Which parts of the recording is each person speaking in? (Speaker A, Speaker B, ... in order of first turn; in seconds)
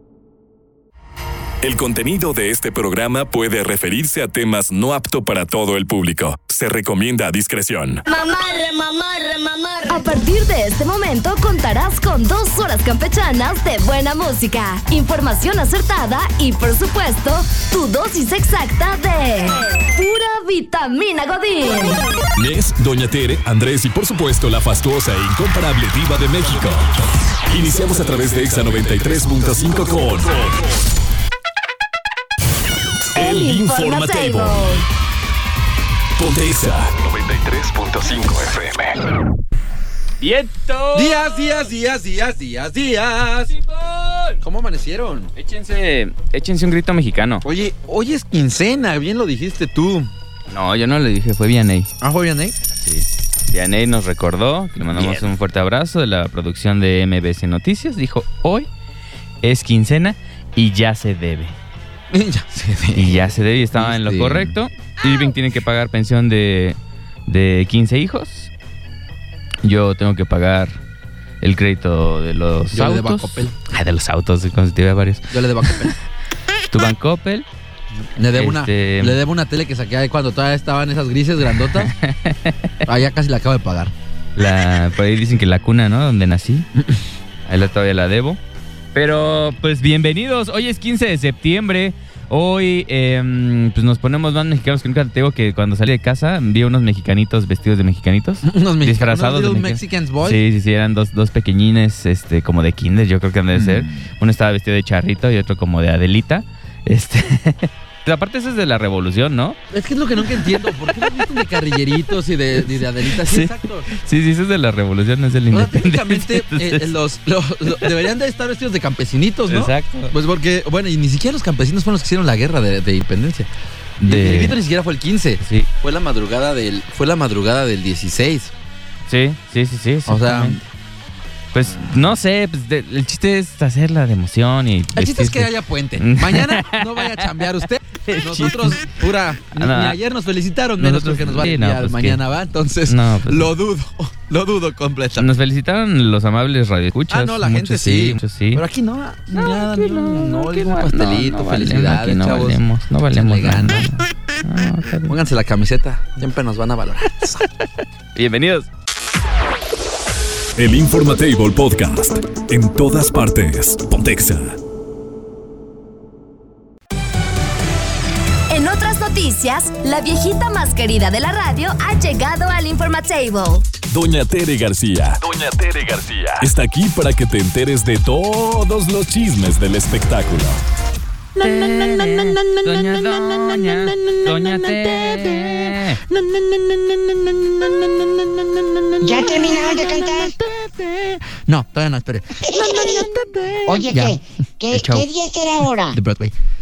Speaker A: 1.6-8.0, 22.3-26.9, 27.4-30.6, 33.1-34.8, 36.1-38.9, 160.6-164.6, 173.9-180.6
Speaker B: 8.1-22.0, 33.1-34.8, 168.5-173.7
Speaker C: 40.2-41.5, 43.5-44.4, 45.4-47.4, 50.5-51.9, 52.8-58.7, 59.4-61.5, 62.9-68.5, 69.6-70.8, 71.4-75.9, 76.7-77.5, 78.3-79.2, 81.8-82.5, 84.3-86.7, 87.5-88.4, 88.9-109.6, 110.2-111.5, 112.5-116.9, 117.7-118.0, 119.5-120.1, 124.0-124.6, 125.4-125.7, 129.1-130.6, 131.5-139.0, 139.5-140.0, 140.8-142.2, 142.8-143.5, 145.2-148.6, 149.3-155.1, 158.1-158.7, 181.4-186.0, 194.7-195.1
Speaker D: 40.9-43.5, 44.4-45.3, 47.4-50.1, 52.0-52.5, 54.9-55.3, 62.1-64.5, 72.7-73.5, 75.3-75.9, 78.2-81.9, 82.8-83.9, 86.8-87.0, 98.4-100.4, 103.5-103.9, 109.7-113.9, 115.5-123.5, 124.0-128.5, 130.1-130.6, 134.9-145.3, 147.1-153.9, 155.1-157.4, 181.4-194.2, 195.9-196.3
Speaker E: 189.0-190.4, 192.4-193.1, 193.6-196.0